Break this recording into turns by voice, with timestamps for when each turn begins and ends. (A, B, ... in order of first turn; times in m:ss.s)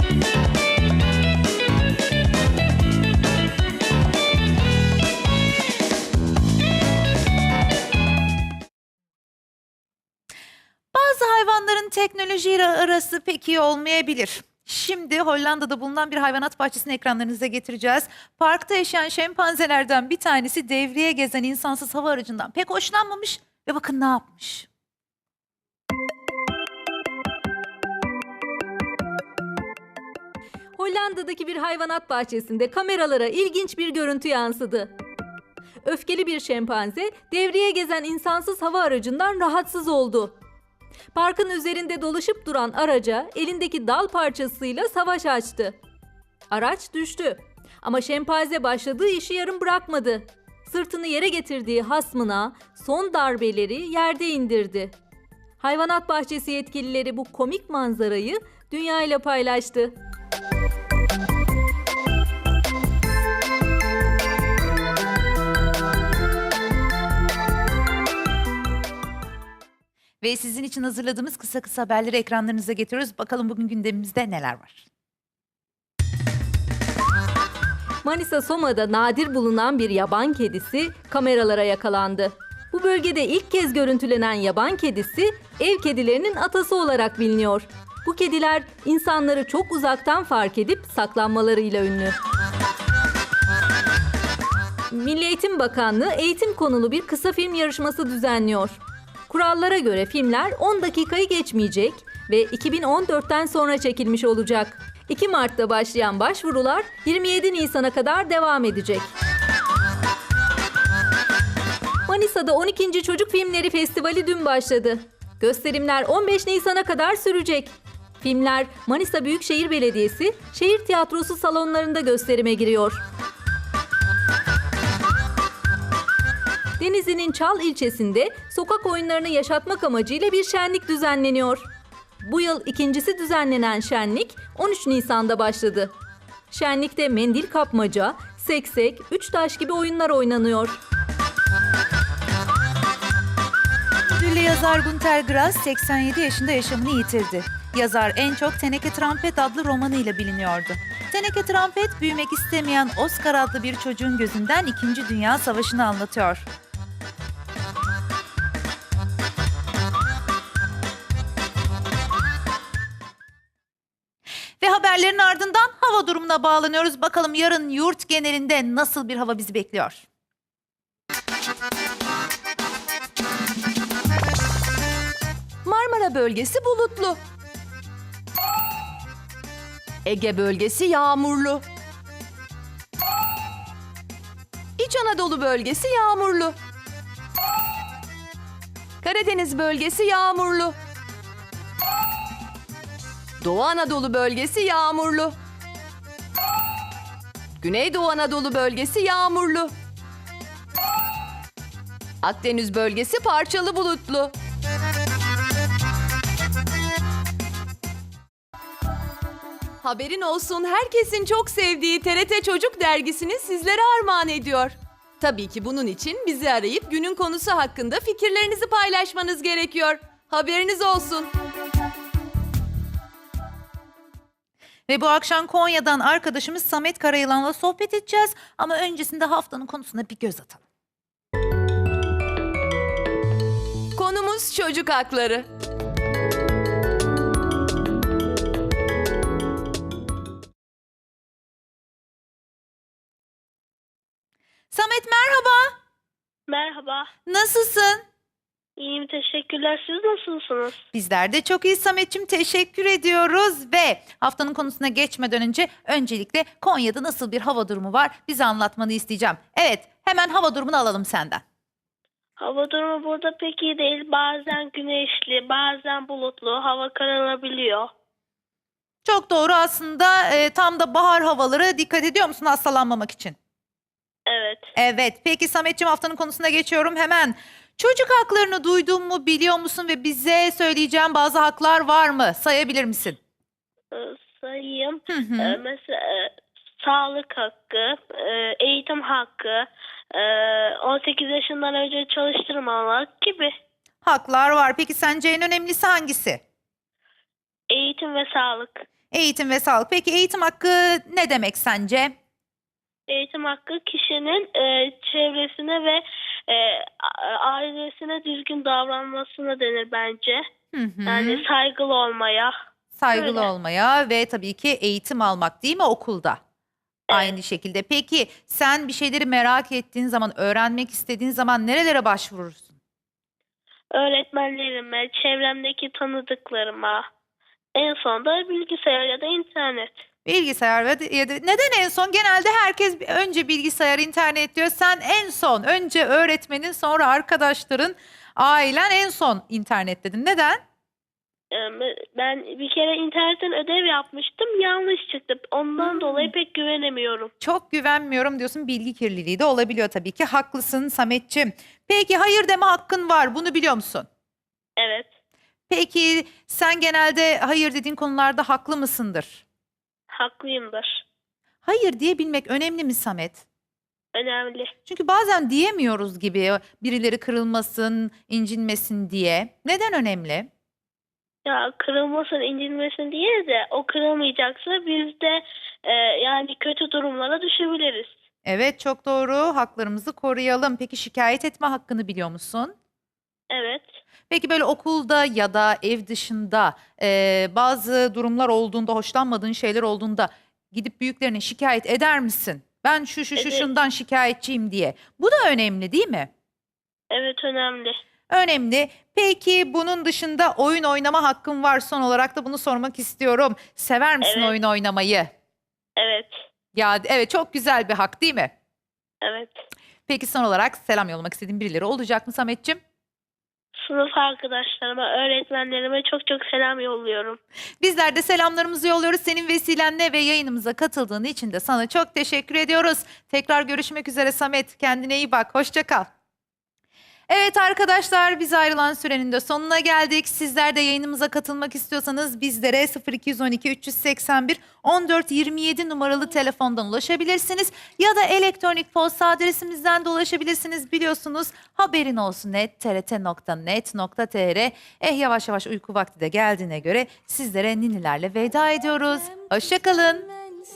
0:10.9-0:24.7 A
0:30.8-0:34.9 B
0:35.8-0:40.4 B
0:41.1-0:45.8 B
0:46.5-0:55.0 B
0:55.6-1:00.0 B
1:10.2-1:14.9 A
1:18.0-1:32.2 B
1:34.9-1:49.1 B
1:52.1-2:03.0 B
2:06.8-2:11.7 B
2:12.2-2:15.9 B
2:16.5-2:20.8 B
2:24.1-2:36.5 A
2:44.6-2:50.1 A
2:55.6-2:57.2 C
3:00.0-3:01.6 C
3:04.8-3:06.6 C
3:09.0-3:10.8 C
3:13.4-3:15.4 C
3:17.6-3:19.7 C
3:22.2-3:24.3 C
3:29.8-3:41.3 C
3:44.9-3:50.6 A
3:54.0-3:55.5 C
4:04.7-4:05.7 A
4:06.5-4:07.1 D
4:07.3-4:08.0 A
4:08.8-4:10.8 D
4:10.9-4:21.4 A
4:22.4-4:27.9 D
4:29.0-4:33.4 A
4:34.3-4:34.6 D
4:34.8-4:43.2 A
4:43.9-4:44.9 D
4:45.1-4:45.6 A
4:45.7-4:53.5 D
4:54.0-4:56.4 A
4:57.7-4:58.8 D
4:59.1-5:02.1 A
5:03.1-5:10.4 D
5:10.7-5:11.5 A
5:11.2-5:12.5 D
5:13.0-5:16.4 A
5:17.1-5:22.8 A
5:24.0-5:27.0 D
5:27.8-5:29.9 D
5:30.2-5:40.6 A
5:41.5-5:45.7 D
5:45.8-5:46.3 A
5:46.4-5:47.3 D
5:47.4-5:54.1 A
5:54.8-5:55.1 D
5:55.7-5:59.4 A
6:00.1-6:00.9 D
6:01.6-6:03.4 A
6:04.1-6:04.6 D
6:04.8-6:10.5 A
6:11.4-6:18.1 D
6:18.5-6:22.7 A
6:23.5-6:23.9 D
6:24.3-6:36.3 A
6:37.1-6:37.9 D
6:38.3-6:45.3 A
6:46.0-6:46.3 D
6:46.7-6:48.5 A
6:49.2-6:49.5 D
6:50.1-6:52.8 A
6:53.9-6:57.4 D
6:57.8-7:06.1 A
7:07.3-7:30.3 A